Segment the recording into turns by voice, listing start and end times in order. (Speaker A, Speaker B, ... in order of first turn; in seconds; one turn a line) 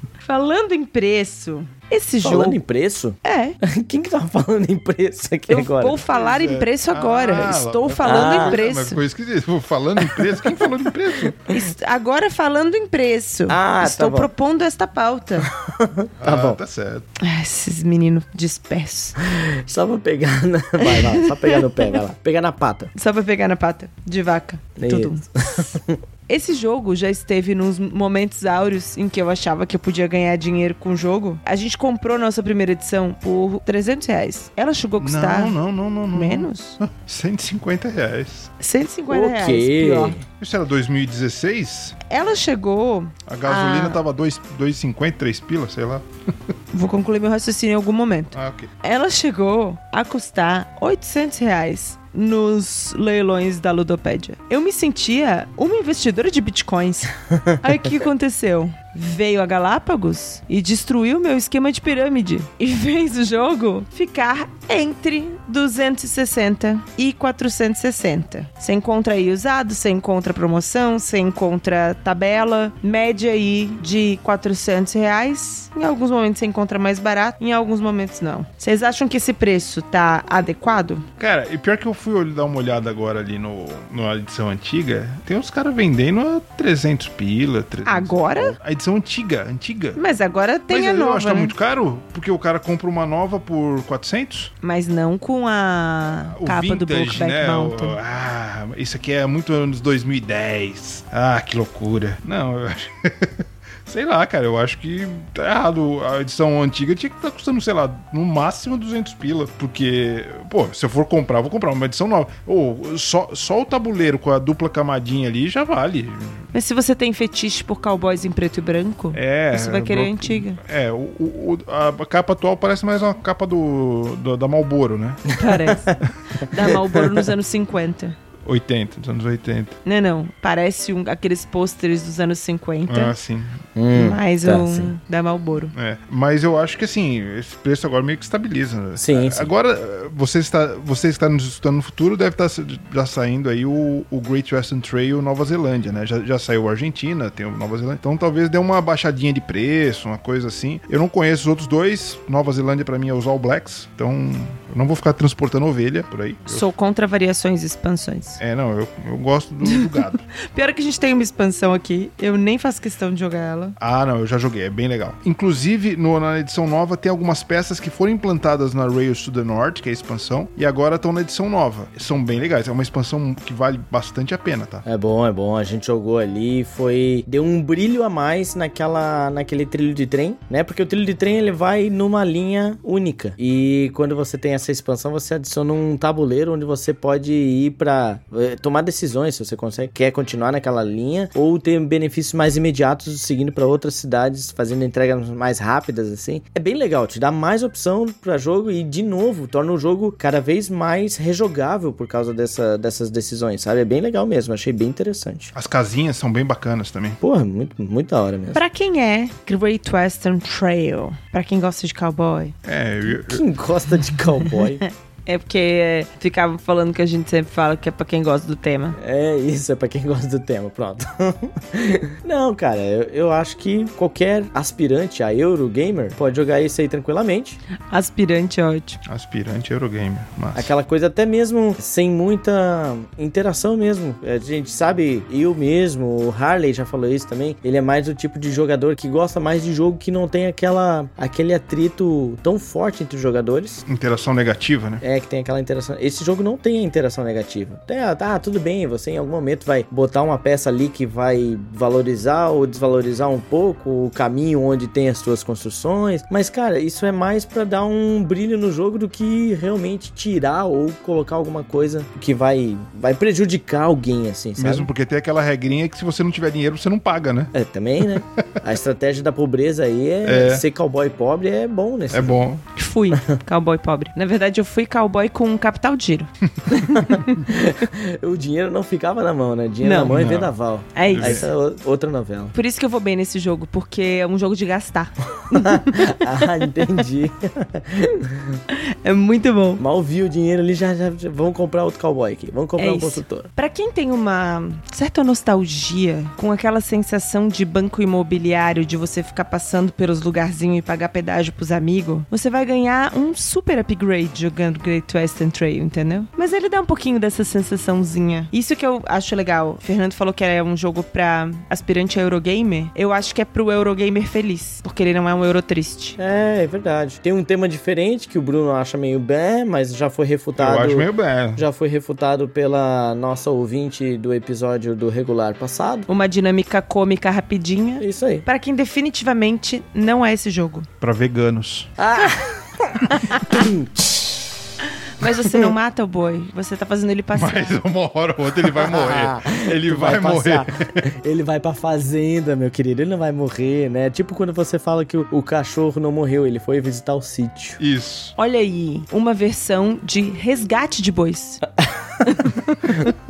Speaker A: 0.2-2.6
Speaker B: 2.2-6.0
Speaker A: 3.2-3.6
Speaker A: 5.5-9.0
Speaker C: 6.1-11.5
Speaker B: 8.0-8.6
Speaker B: 10.0-10.6
Speaker A: 11.5-15.5
Speaker B: 13.5-14.3
Speaker B: 15.5-16.6
Speaker C: 16.2-17.1
Speaker A: 17.2-19.2
Speaker B: 19.2-22.9
Speaker A: 20.8-21.6
Speaker A: 22.9-25.8
Speaker B: 24.8-26.0
Speaker A: 26.3-35.5
Speaker C: 35.0-38.5
Speaker A: 36.1-36.8
Speaker A: 38.6-40.2
Speaker B: 39.1-40.2
Speaker C: 40.4-42.0
Speaker A: 42.1-44.0
Speaker C: 43.3-46.5
Speaker A: 46.7-81.0
Speaker C: 48.3-48.7
Speaker C: 81.2-90.0
Speaker A: 87.8-88.5
Speaker A: 90.0-91.5
Speaker C: 90.7-94.5
Speaker A: 94.6-98.0
Speaker C: 96.3-116.5
Speaker A: 116.5-120.6
Speaker C: 119.1-125.3
Speaker A: 125.4-128.2
Speaker B: 125.4-127.2
Speaker C: 128.4-129.8
Speaker A: 129.8-133.1
Speaker C: 132.9-133.6
Speaker B: 133.7-134.9
Speaker A: 133.9-135.7
Speaker C: 135.7-156.7
Speaker B: 139.0-139.5
Speaker A: 156.5-158.4
Speaker C: 158.4-160.2
Speaker A: 160.5-163.7
Speaker C: 163.8-174.8
Speaker B: 174.8-205.5
Speaker C: 205.5-207.2
Speaker B: 207.2-208.6
Speaker A: 208.5-212.5
Speaker C: 212.6-213.4
Speaker B: 213.2-214.8
Speaker A: 214.8-219.0
Speaker B: 218.9-227.6
Speaker A: 227.9-229.0
Speaker C: 229.1-230.7
Speaker B: 230.5-243.8
Speaker C: 243.9-245.0
Speaker B: 245.0-264.9
Speaker C: 264.6-267.5
Speaker B: 267.5-272.4
Speaker C: 268.1-268.5
Speaker C: 270.2-270.6
Speaker C: 272.1-272.7
Speaker A: 272.8-277.4
Speaker B: 276.9-282.5
Speaker A: 279.8-280.1
Speaker C: 280.1-280.5
Speaker A: 280.9-281.5
Speaker C: 281.1-281.4
Speaker A: 282.5-286.4
Speaker B: 285.3-288.6
Speaker A: 288.7-289.8
Speaker B: 289.8-293.5
Speaker A: 292.8-316.2
Speaker B: 316.2-326.1
Speaker C: 320.6-321.6
Speaker A: 326.1-330.9
Speaker B: 328.0-328.4
Speaker C: 331.0-331.9
Speaker B: 332.0-334.5
Speaker A: 333.1-333.7
Speaker A: 334.8-337.8
Speaker B: 335.2-335.7
Speaker C: 337.3-341.0
Speaker B: 338.7-347.8
Speaker C: 347.8-348.3
Speaker A: 348.4-351.6
Speaker B: 351.8-352.4
Speaker A: 352.2-353.1